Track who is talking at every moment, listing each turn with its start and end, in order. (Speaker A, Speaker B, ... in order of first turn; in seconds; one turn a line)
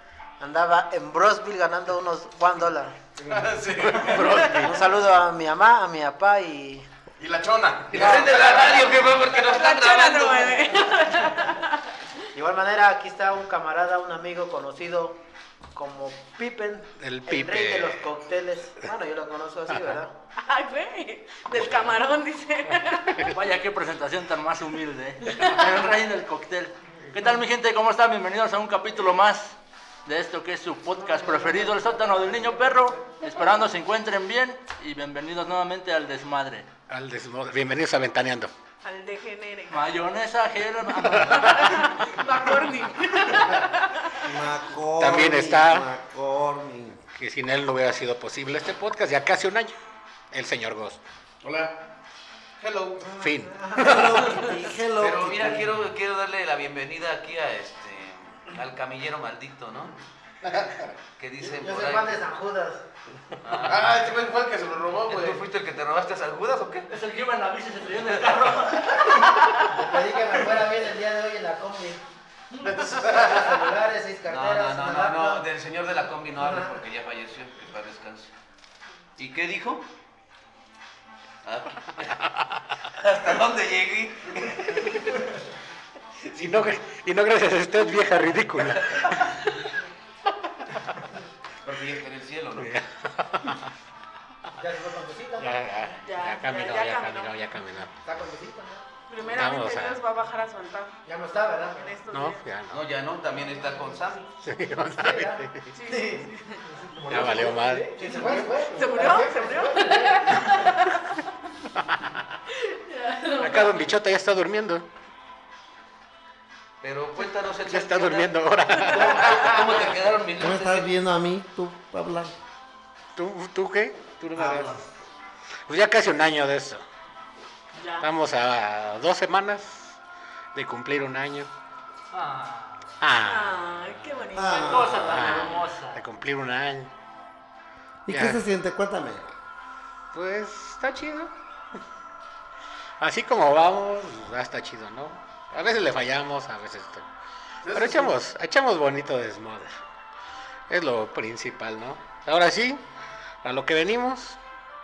Speaker A: 0.4-3.4
Speaker B: 3.2-4.4
Speaker C: 3.8-4.9
Speaker A: 4.5-6.9
Speaker B: 7.2-9.2
Speaker D: 7.9-10.9
Speaker A: 7.9-8.5
Speaker E: 9.3-11.9
Speaker A: 12.3-15.2
Speaker A: 15.7-20.1
Speaker C: 17.0-18.0
Speaker E: 20.4-23.3
Speaker C: 21.5-22.0
Speaker F: 23.3-36.7
Speaker A: 31.0-32.9
Speaker C: 36.9-38.5
Speaker E: 38.8-39.9
Speaker F: 39.7-41.7
Speaker C: 41.0-41.6
Speaker E: 41.3-44.2
Speaker G: 44.2-47.0
Speaker C: 45.0-45.9
Speaker C: 47.2-49.7
Speaker C: 50.3-51.0
Speaker B: 51.4-51.8
Speaker B: 52.6-53.1
Speaker A: 53.0-54.1
Speaker C: 53.1-54.4
Speaker G: 53.8-55.8
Speaker D: 55.0-60.0
Speaker B: 60.4-60.9
Speaker D: 61.2-62.3
Speaker A: 61.4-62.8
Speaker D: 63.4-64.1
Speaker B: 63.6-65.4
Speaker D: 65.1-66.9
Speaker F: 66.9-69.6
Speaker D: 68.1-68.4
Speaker A: 69.7-72.0
Speaker A: 72.7-75.4
Speaker B: 72.7-73.5
Speaker D: 74.3-78.3
Speaker A: 76.4-76.8
Speaker D: 79.2-79.9
Speaker D: 81.4-82.1
Speaker D: 82.9-85.2
Speaker C: 84.7-85.2
Speaker C: 86.2-89.7
Speaker D: 91.6-92.7
Speaker C: 92.6-93.7
Speaker A: 94.6-95.6
Speaker C: 95.4-97.9
Speaker E: 96.0-97.3
Speaker A: 98.0-98.8
Speaker E: 99.1-101.0
Speaker C: 99.2-100.0
Speaker A: 101.0-101.9
Speaker E: 101.8-102.4
Speaker C: 102.1-102.8
Speaker D: 102.7-104.3
Speaker C: 104.4-105.7
Speaker A: 105.0-110.7
Speaker E: 105.7-106.7
Speaker C: 107.1-108.2
Speaker B: 108.0-108.5
Speaker E: 108.6-111.2
Speaker C: 111.8-112.2
Speaker E: 112.5-113.9
Speaker C: 113.4-114.9
Speaker D: 116.8-120.9
Speaker C: 117.7-119.7
Speaker G: 120.4-122.3
Speaker C: 123.2-124.7
Speaker G: 124.4-124.9
Speaker C: 125.7-126.8
Speaker E: 127.8-128.1
Speaker C: 128.0-130.0
Speaker C: 130.6-131.5
Speaker F: 132.1-132.9
Speaker C: 133.0-134.1
Speaker E: 133.3-135.3
Speaker G: 134.3-135.2
Speaker F: 134.6-136.0
Speaker C: 135.0-136.9
Speaker G: 138.1-139.3
Speaker C: 138.1-138.4
Speaker C: 140.1-141.3
Speaker C: 143.0-147.1
Speaker B: 147.6-148.2
Speaker C: 147.7-149.7
Speaker C: 150.7-152.8
Speaker C: 153.4-154.4